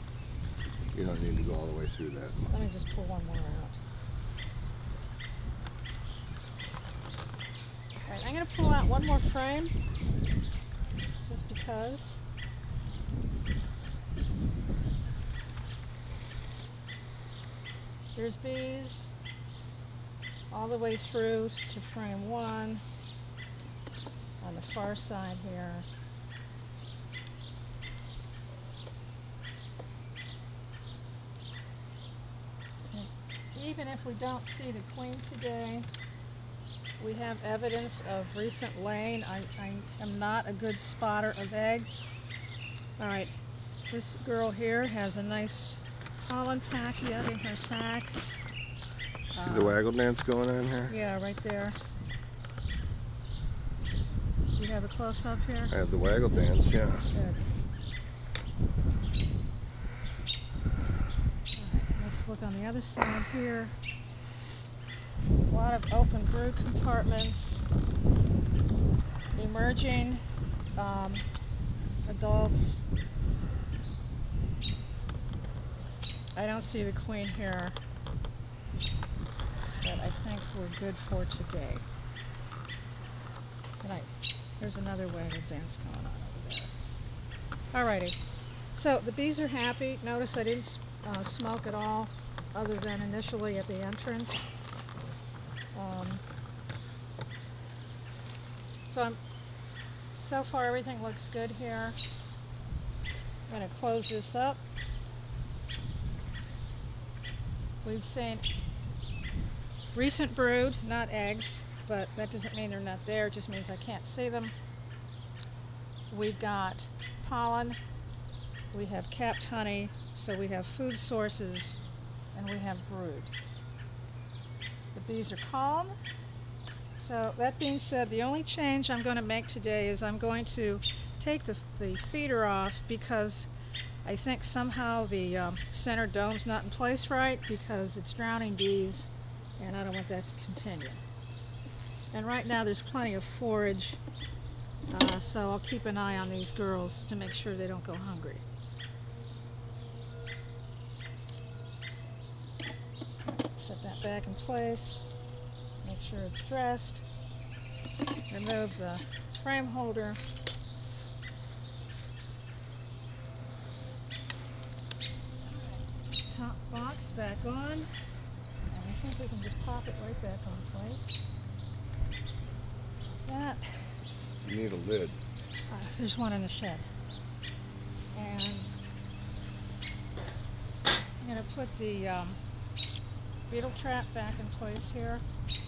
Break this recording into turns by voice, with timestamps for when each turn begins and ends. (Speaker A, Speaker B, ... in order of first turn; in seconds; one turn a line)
Speaker A: 0.9-2.5
Speaker B: 2.5-3.8
Speaker B: 8.1-9.8
Speaker B: 11.2-12.2
Speaker B: 18.1-19.1
Speaker B: 20.5-22.8
Speaker B: 24.4-25.9
Speaker B: 32.9-35.9
Speaker B: 37.0-42.1
Speaker B: 43.0-43.3
Speaker B: 43.9-48.3
Speaker A: 49.3-51.0
Speaker B: 49.4-49.8
Speaker B: 50.9-51.8
Speaker B: 54.6-55.7
Speaker A: 55.7-57.1
Speaker B: 57.1-57.5
Speaker B: 61.5-63.8
Speaker B: 65.5-67.7
Speaker B: 69.3-70.2
Speaker B: 70.8-71.2
Speaker B: 72.0-72.8
Speaker B: 76.3-77.8
Speaker B: 79.8-81.8
Speaker B: 83.8-86.7
Speaker B: 87.7-88.2
Speaker B: 88.7-94.5
Speaker B: 95.7-96.2
Speaker B: 98.9-99.2
Speaker B: 100.2-102.0
Speaker B: 103.5-104.6
Speaker B: 107.8-108.5
Speaker B: 109.9-114.5
Speaker B: 116.1-117.8
Speaker B: 118.7-121.8
Speaker B: 122.3-123.3
Speaker B: 124.9-125.9
Speaker B: 127.0-133.5
Speaker B: 134.1-141.0
Speaker B: 142.1-144.0
Speaker B: 144.9-148.4
Speaker B: 153.5-155.1
Speaker B: 155.8-157.0
Speaker B: 158.3-160.2
Speaker B: 165.4-167.9
Speaker B: 168.7-171.2
Speaker B: 173.2-173.9
Speaker A: 174.4-175.2
Speaker B: 175.7-176.9
Speaker B: 178.1-178.7
Speaker B: 181.2-182.4
Speaker B: 183.5-185.2